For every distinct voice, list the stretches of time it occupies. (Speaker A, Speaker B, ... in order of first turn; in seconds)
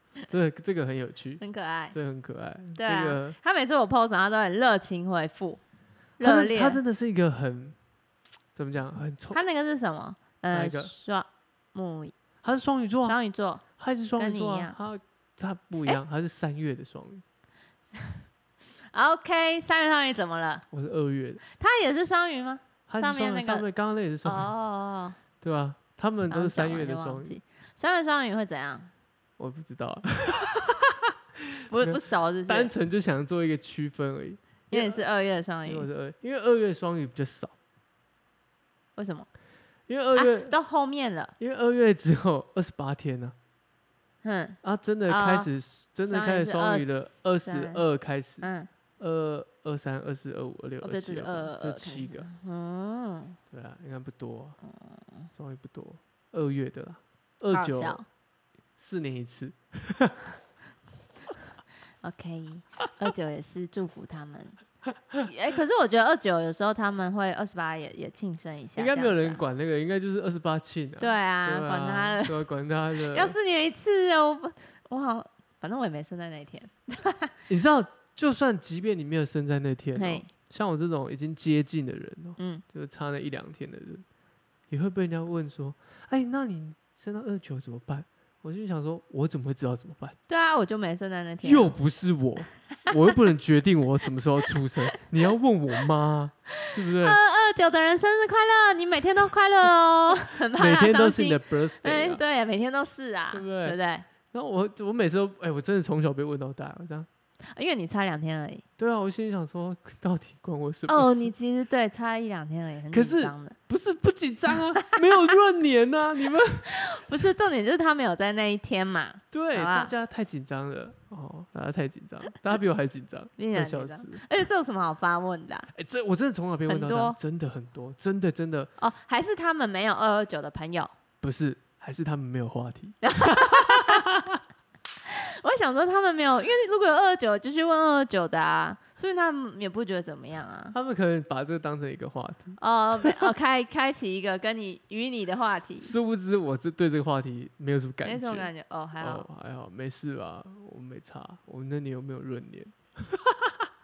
Speaker A: 0.3-1.4, 1.9-3.4, 6.2-7.8, 8.6-9.4, 10.5-10.9, 12.4-13.2, 13.8-17.2, 20.7-21.4, 22.9-24.5, 25.4-27.4, 29.4-30.9, 31.8-35.0, 35.7-37.5, 39.9-40.5, 41.4-43.4, 44.6-48.5, 49.0-52.3, 53.5-54.6, 55.4-58.0, 58.8-60.2, 68.8-73.4, 77.5-84.0, 84.7-90.2, 91.4-97.2, 100.5-102.2, 103.3-103.8, 104.3-107.1, 108.8-111.3, 112.9-116.7, 119.3-124.2, 125.8-128.7, 131.2-134.4, 140.7-143.3, 145.8-153.3
Speaker B: 1.4-2.0, 2.8-5.6, 6.2-6.8, 9.3-12.1, 13.1-13.7, 14.2-14.8, 18.9-20.7, 21.6-23.6, 24.2-25.2, 26.3-28.9, 31.7-32.7, 34.7-35.9, 39.0-39.3, 40.2-41.4, 44.2-45.5, 46.1-47.8, 48.4-48.7, 50.8-53.4, 54.6-55.3, 57.5-58.0, 62.0-64.6, 65.2-69.4, 71.0-72.4, 73.1-77.3, 80.0-80.3, 82.4-82.6, 90.3-91.8, 97.0-104.0, 107.5-108.6, 110.9-113.5, 116.7-119.9, 123.4-125.7, 126.7-127.2, 128.8-130.9, 133.0-134.1, 135.1-140.8, 142.6-145.9, 148.1-149.3